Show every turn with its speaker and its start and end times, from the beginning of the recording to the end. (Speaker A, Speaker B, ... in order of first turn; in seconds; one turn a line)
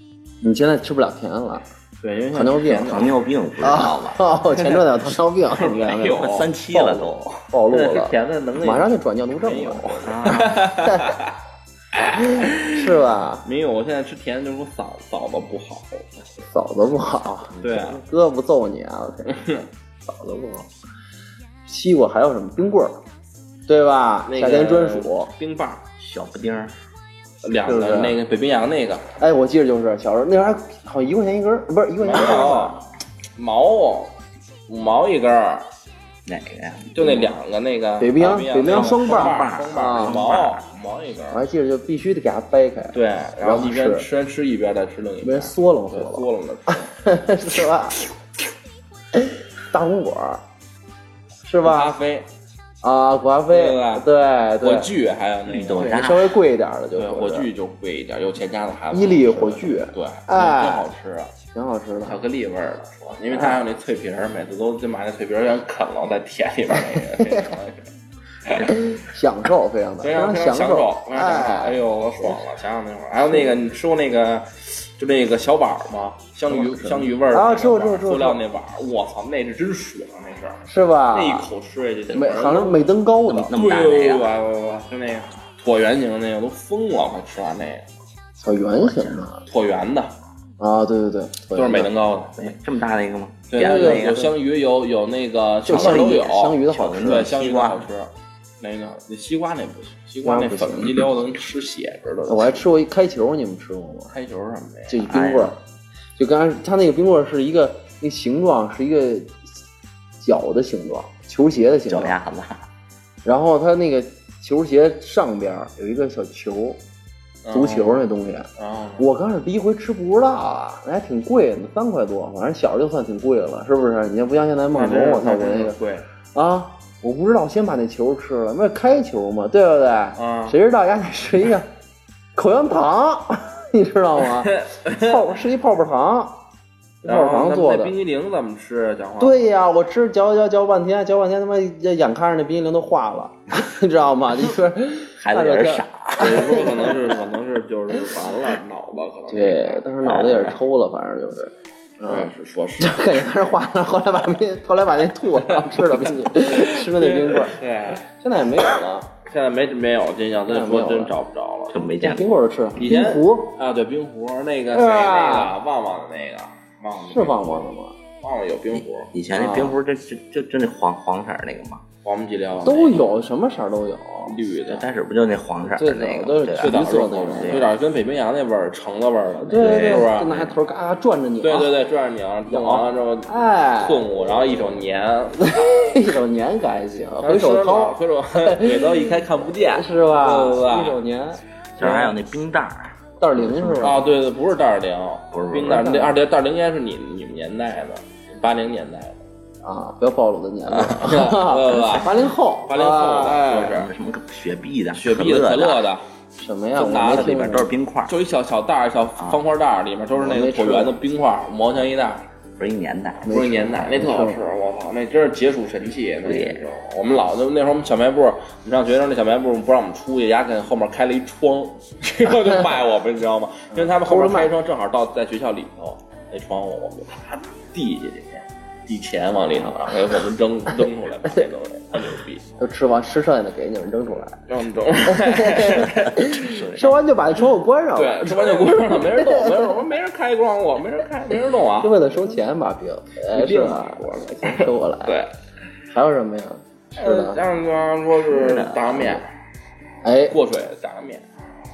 Speaker A: 0.4-1.7
Speaker B: 2.0-3.1
Speaker A: 2.3-3.1
Speaker C: 2.8-4.2
Speaker A: 3.6-10.1
Speaker B: 5.5-6.5
Speaker C: 6.1-7.4
Speaker B: 7.7-11.3
Speaker C: 10.1-10.6
Speaker A: 10.8-11.1
Speaker B: 11.9-16.5
Speaker A: 12.2-13.4
Speaker A: 16.5-19.4
Speaker B: 17.6-18.0
Speaker B: 19.3-19.6
Speaker A: 21.7-23.0
Speaker A: 23.7-25.3
Speaker B: 24.3-25.8
Speaker C: 26.0-26.8
Speaker B: 27.4-29.1
Speaker A: 27.6-28.2
Speaker A: 29.2-32.8
Speaker B: 32.0-32.8
Speaker B: 33.4-34.1
Speaker B: 34.7-35.7
Speaker C: 36.3-37.0
Speaker B: 36.9-41.4
Speaker A: 37.0-37.3
Speaker A: 38.0-40.3
Speaker C: 38.7-40.6
Speaker A: 41.3-44.1
Speaker B: 42.9-46.9
Speaker A: 45.2-46.3
Speaker A: 47.0-48.0
Speaker A: 49.1-50.4
Speaker A: 51.4-52.0
Speaker B: 51.6-52.3
Speaker A: 52.8-54.9
Speaker B: 53.5-54.1
Speaker B: 54.6-56.0
Speaker C: 55.5-56.4
Speaker A: 55.8-57.5
Speaker B: 57.0-61.3
Speaker A: 58.9-60.9
Speaker A: 61.5-62.2
Speaker B: 62.1-67.9
Speaker A: 63.3-63.6
Speaker B: 68.5-68.7
Speaker A: 68.7-72.4
Speaker B: 70.0-82.9
Speaker A: 76.5-78.4
Speaker A: 80.7-81.5
Speaker A: 82.1-83.5
Speaker C: 83.3-84.3
Speaker B: 83.5-87.9
Speaker A: 88.4-89.4
Speaker C: 88.8-89.3
Speaker B: 89.5-90.2
Speaker A: 90.6-91.9
Speaker B: 91.5-92.4
Speaker C: 92.3-94.3
Speaker B: 93.5-102.6
Speaker A: 93.6-94.3
Speaker A: 95.7-97.4
Speaker C: 95.7-97.9
Speaker A: 100.2-101.0
Speaker A: 102.3-104.1
Speaker B: 104.1-105.0
Speaker A: 104.9-105.6
Speaker C: 105.0-105.5
Speaker A: 106.2-109.4
Speaker A: 110.2-112.2
Speaker C: 111.9-112.7
Speaker A: 113.2-116.8
Speaker B: 117.5-118.0
Speaker A: 117.5-125.8
Speaker B: 118.6-119.1
Speaker B: 124.7-126.0
Speaker A: 126.3-131.7
Speaker B: 130.2-130.6
Speaker A: 132.4-136.4
Speaker B: 134.4-135.2
Speaker A: 137.0-137.9
Speaker B: 137.0-139.4
Speaker A: 139.2-147.0
Speaker C: 145.2-146.7
Speaker B: 146.2-149.8
Speaker A: 149.3-159.1
Speaker C: 150.0-150.6
Speaker B: 152.1-153.1
Speaker B: 155.5-158.0
Speaker B: 159.2-161.9
Speaker A: 160.5-161.1
Speaker C: 161.7-162.3
Speaker A: 162.0-163.5
Speaker B: 162.8-167.4
Speaker A: 164.7-165.5
Speaker A: 167.1-168.0
Speaker B: 168.2-169.1
Speaker C: 169.1-171.8
Speaker A: 169.3-169.8
Speaker B: 172.0-173.1
Speaker A: 172.7-174.3
Speaker B: 174.2-174.9
Speaker C: 174.7-177.7
Speaker A: 175.6-177.7
Speaker B: 176.6-180.5
Speaker A: 179.5-181.8
Speaker C: 179.6-180.1
Speaker B: 181.4-185.7
Speaker A: 182.5-184.7
Speaker A: 185.4-189.1
Speaker B: 187.2-191.0
Speaker A: 189.7-192.0
Speaker C: 191.8-194.0
Speaker A: 193.2-194.1
Speaker B: 193.8-199.2
Speaker C: 195.3-195.8
Speaker A: 195.6-196.2
Speaker A: 199.6-203.7
Speaker B: 200.8-203.9
Speaker C: 203.5-205.8
Speaker B: 204.9-206.0
Speaker A: 206.4-207.7
Speaker B: 206.8-207.4
Speaker C: 207.1-208.1
Speaker B: 208.1-212.2
Speaker A: 210.2-210.9
Speaker C: 212.6-213.4
Speaker A: 213.3-214.4
Speaker B: 213.3-232.4
Speaker C: 216.2-216.6
Speaker A: 223.8-224.5
Speaker A: 229.6-229.9
Speaker A: 232.6-234.4
Speaker B: 234.5-236.2
Speaker A: 235.1-239.7
Speaker C: 236.2-237.0
Speaker B: 237.9-241.9
Speaker A: 241.8-245.2
Speaker B: 243.3-245.3
Speaker A: 245.9-247.4
Speaker B: 247.0-249.3
Speaker C: 248.3-249.1
Speaker A: 250.0-250.4
Speaker B: 250.3-251.2